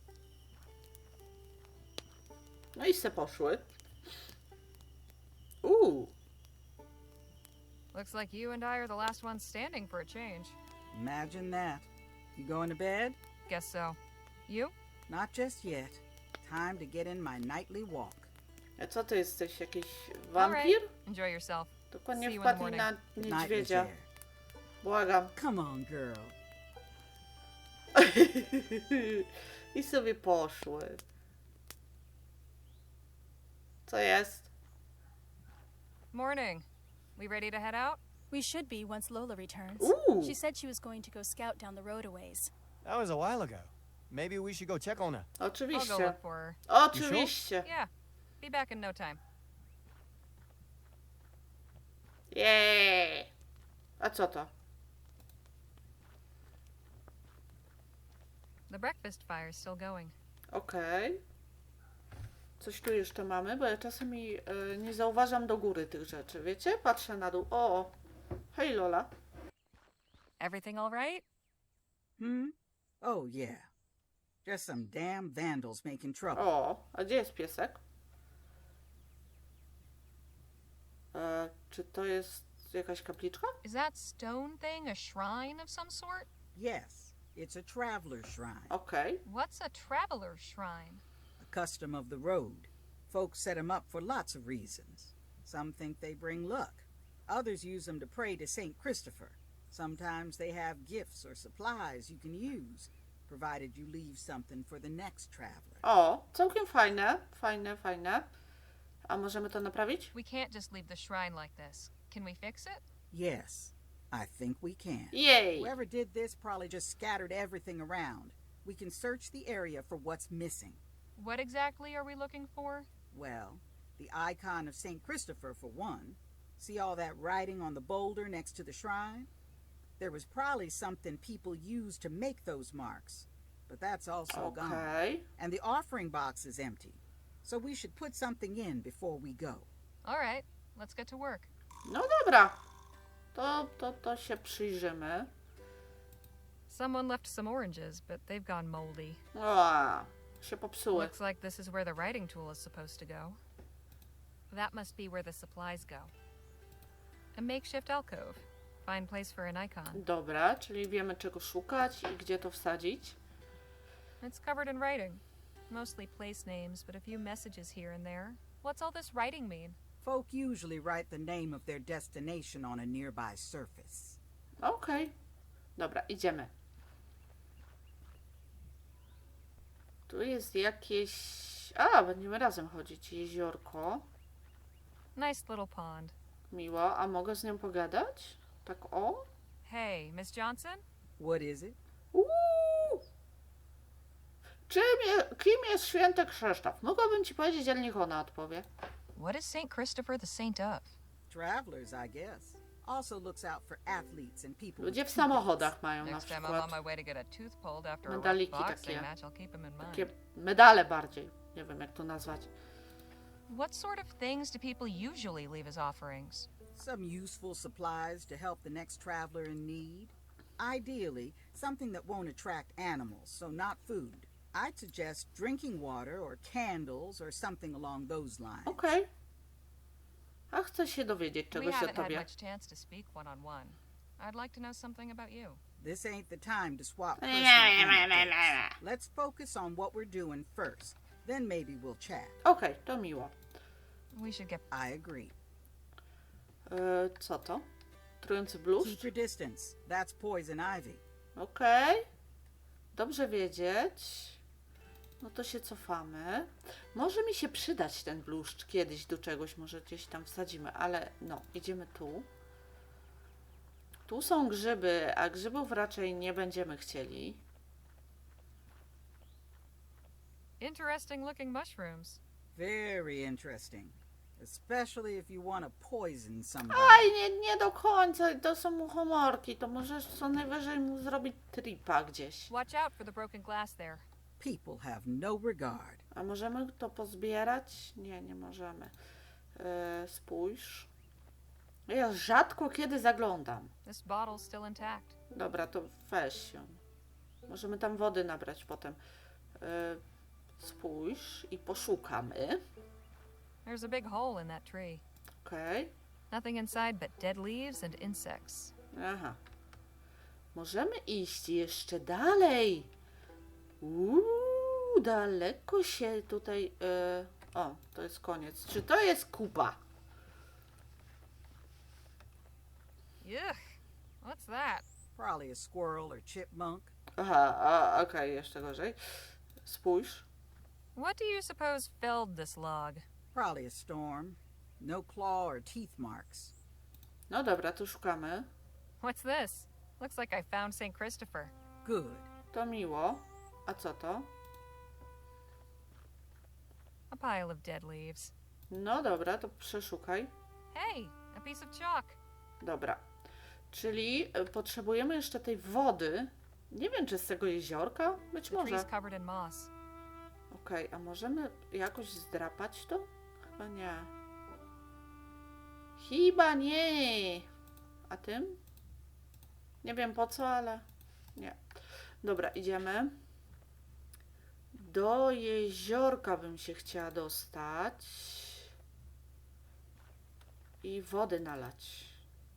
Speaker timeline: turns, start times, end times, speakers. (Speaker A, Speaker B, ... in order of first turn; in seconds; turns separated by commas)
Speaker A: 2.8-3.7, Speaker A: 5.6-6.1, Speaker B: 7.9-10.6, Speaker C: 10.9-13.2, Speaker B: 13.5-14.7, Speaker C: 15.1-18.3, Speaker A: 18.8-20.9, Speaker B: 20.4-22.9, Speaker A: 21.9-23.9, Speaker C: 23.2-24.1, Speaker A: 24.8-25.3, Speaker C: 25.4-26.4, Speaker A: 27.9-31.0, Speaker A: 33.9-34.5, Speaker B: 36.1-38.0, Speaker D: 38.3-42.5, Speaker A: 39.8-40.4, Speaker E: 42.8-45.3, Speaker A: 45.4-46.1, Speaker B: 45.7-46.6, Speaker A: 46.7-47.7, Speaker E: 46.9-47.3, Speaker B: 47.6-47.9, Speaker B: 48.4-49.2, Speaker A: 52.3-53.3, Speaker A: 54.0-54.5, Speaker B: 58.7-60.1, Speaker A: 60.5-61.2, Speaker A: 62.6-67.9, Speaker A: 68.5-69.1, Speaker B: 70.4-71.2, Speaker C: 72.2-73.7, Speaker C: 74.4-76.4, Speaker A: 76.3-77.8, Speaker A: 81.1-83.6, Speaker B: 83.6-86.3, Speaker C: 86.5-88.7, Speaker A: 88.7-89.2, Speaker B: 89.2-91.0, Speaker C: 91.4-105.8, Speaker A: 105.8-108.3, Speaker A: 109.1-110.1, Speaker B: 110.1-112.8, Speaker C: 113.1-120.8, Speaker A: 115.1-115.7, Speaker B: 121.2-122.9, Speaker C: 123.1-129.3, Speaker C: 130.0-139.7, Speaker A: 134.3-135.2, Speaker B: 140.0-141.5, Speaker A: 141.8-142.6, Speaker A: 143.3-145.3, Speaker B: 146.7-149.2, Speaker A: 149.3-151.1, Speaker B: 150.9-153.4, Speaker B: 154.5-156.1, Speaker B: 157.3-160.0, Speaker A: 159.9-163.2, Speaker B: 164.2-169.8, Speaker C: 170.0-174.2, Speaker A: 174.6-175.1, Speaker A: 175.8-176.5, Speaker A: 180.1-184.1, Speaker B: 185.1-186.1, Speaker A: 186.5-189.3, Speaker B: 189.6-190.8, Speaker C: 191.2-191.8, Speaker A: 192.1-193.0, Speaker A: 194.7-198.7, Speaker B: 199.1-200.9, Speaker C: 201.3-205.7, Speaker A: 204.8-206.8, Speaker B: 206.0-210.1, Speaker A: 208.1-209.1, Speaker A: 209.9-212.5, Speaker B: 213.5-216.5, Speaker C: 216.7-228.8, Speaker A: 228.7-229.1, Speaker A: 230.5-232.2, Speaker B: 231.5-235.6, Speaker C: 235.8-242.4, Speaker A: 237.2-238.7, Speaker A: 242.4-243.3, Speaker B: 244.1-244.7, Speaker C: 244.7-245.3, Speaker A: 246.7-247.7, Speaker A: 248.2-249.1, Speaker C: 248.8-251.0, Speaker A: 251.3-252.1, Speaker A: 252.9-254.4, Speaker A: 255.2-262.3, Speaker A: 264.1-267.4, Speaker B: 270.6-272.2, Speaker C: 272.5-277.1, Speaker A: 276.7-282.5, Speaker B: 282.5-284.0, Speaker C: 284.4-286.0, Speaker A: 286.1-288.9, Speaker A: 289.6-290.9, Speaker A: 291.9-293.7, Speaker B: 293.8-295.1, Speaker A: 295.3-296.8, Speaker A: 297.5-299.0, Speaker A: 299.6-300.0, Speaker A: 300.6-302.6, Speaker B: 303.6-305.0, Speaker A: 305.4-305.9, Speaker B: 306.3-308.7, Speaker A: 308.9-309.4, Speaker A: 310.5-312.9, Speaker A: 313.8-319.8, Speaker B: 323.2-323.6, Speaker B: 324.2-324.8, Speaker C: 325.1-326.9, Speaker A: 327.2-330.2, Speaker B: 330.9-333.0, Speaker C: 333.3-336.5, Speaker A: 337.3-338.5, Speaker B: 339.0-341.5, Speaker C: 341.8-342.3, Speaker A: 342.5-344.3, Speaker B: 347.1-348.3, Speaker A: 348.7-350.3, Speaker B: 350.7-352.2, Speaker A: 352.6-353.0, Speaker A: 353.7-358.9, Speaker B: 358.5-359.7, Speaker A: 360.5-364.1, Speaker A: 366.0-367.5, Speaker A: 368.1-368.6, Speaker A: 369.8-370.8, Speaker A: 371.4-371.6, Speaker A: 372.2-373.2, Speaker A: 374.7-378.7, Speaker A: 380.8-382.2